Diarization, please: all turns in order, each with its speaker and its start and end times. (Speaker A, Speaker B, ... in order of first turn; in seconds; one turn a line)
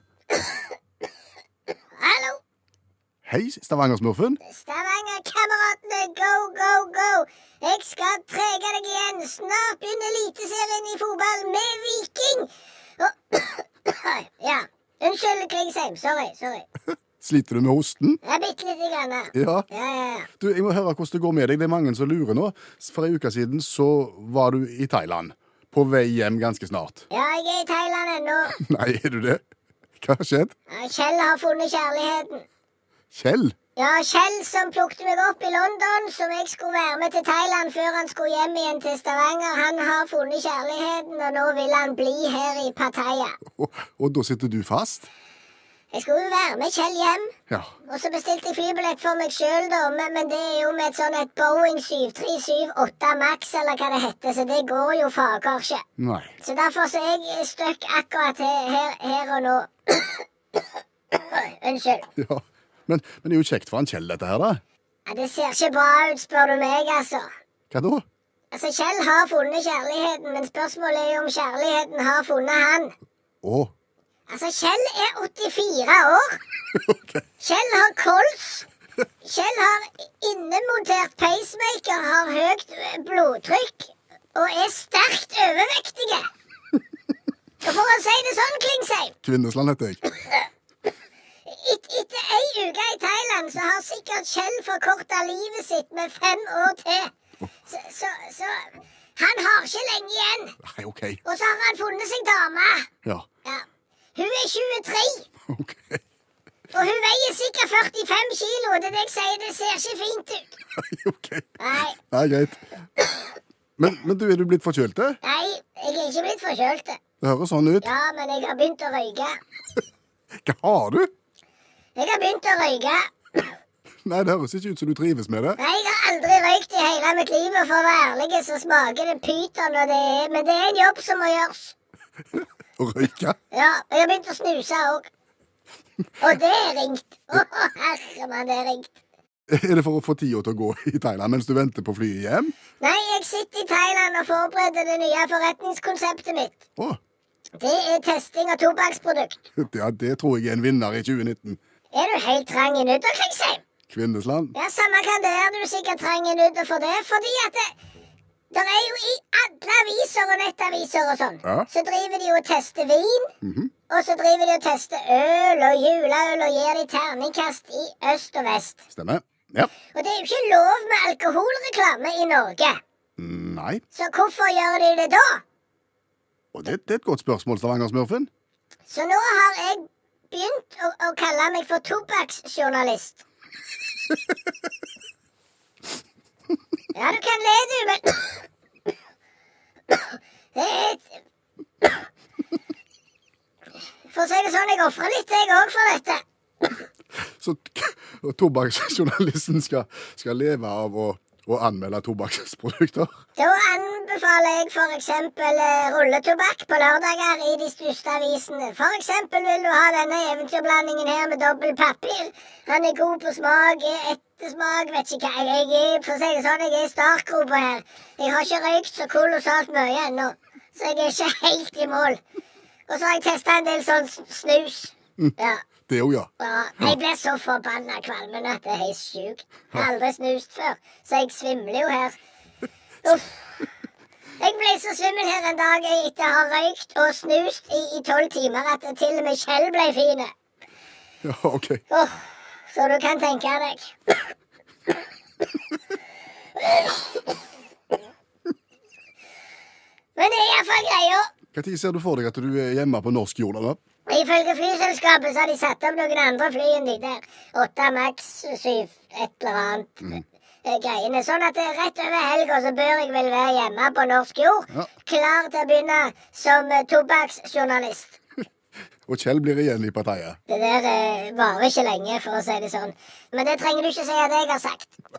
Speaker A: 2.0-2.4
Speaker B: 3.2-4.4
Speaker A: 4.4-16.7
Speaker B: 17.2-18.2
Speaker A: 18.2-20.3
Speaker B: 19.3-19.7
Speaker B: 20.4-27.1
Speaker A: 27.1-28.6
Speaker B: 28.6-29.4
Speaker B: 30.0-30.6
Speaker A: 30.7-32.5
Speaker B: 33.1-33.5
Speaker A: 33.8-43.4
Speaker B: 43.6-45.1
Speaker A: 45.9-47.3
Speaker A: 47.9-55.8
Speaker B: 56.0-56.4
Speaker A: 56.4-60.2
Speaker A: 61.1-62.1
Speaker B: 62.2-64.6
Speaker A: 65.0-67.3
Speaker B: 67.7-68.0
Speaker A: 68.5-72.9
Speaker B: 73.4-73.7
Speaker A: 74.3-76.4
Speaker B: 76.8-77.2
Speaker A: 77.4-78.7
Speaker A: 79.2-86.3
Speaker A: 87.6-89.2
Speaker B: 89.2-90.0
Speaker A: 91.5-97.1
Speaker A: 97.7-100.6
Speaker B: 100.6-101.2
Speaker A: 101.2-102.9
Speaker A: 104.2-105.3
Speaker B: 105.5-106.0
Speaker A: 106.7-110.6
Speaker B: 110.8-112.6
Speaker A: 111.6-112.0
Speaker B: 113.8-115.2
Speaker A: 115.2-117.0
Speaker B: 117.2-117.9
Speaker A: 117.8-119.4
Speaker B: 120.4-121.1
Speaker A: 122.0-123.5
Speaker B: 124.0-125.6
Speaker A: 125.6-131.8
Speaker B: 132.8-133.4
Speaker A: 133.5-135.1
Speaker A: 136.2-138.9
Speaker B: 139.5-142.5
Speaker A: 142.8-146.6
Speaker A: 147.6-149.4
Speaker B: 149.6-151.6
Speaker A: 151.9-153.6
Speaker B: 153.9-154.6
Speaker A: 154.6-157.7
Speaker A: 158.5-163.3
Speaker B: 163.4-163.7
Speaker A: 163.9-168.8
Speaker B: 168.9-169.7
Speaker A: 169.9-172.8
Speaker B: 173.2-173.8
Speaker A: 173.9-175.4
Speaker B: 176.5-178.3
Speaker A: 178.9-183.2
Speaker A: 186.9-188.4
Speaker A: 189.9-191.2
Speaker A: 194.1-196.2
Speaker B: 197.4-203.1
Speaker A: 203.4-222.2
Speaker A: 222.9-225.6
Speaker B: 225.9-226.3
Speaker A: 226.4-232.2
Speaker A: 233.1-233.3
Speaker A: 234.4-240.3
Speaker B: 241.2-241.8
Speaker A: 241.9-242.2
Speaker A: 242.7-244.2
Speaker A: 246.6-247.2
Speaker A: 250.2-251.3
Speaker B: 251.5-253.8
Speaker A: 254.1-268.2
Speaker B: 269.1-270.4
Speaker A: 270.5-274.9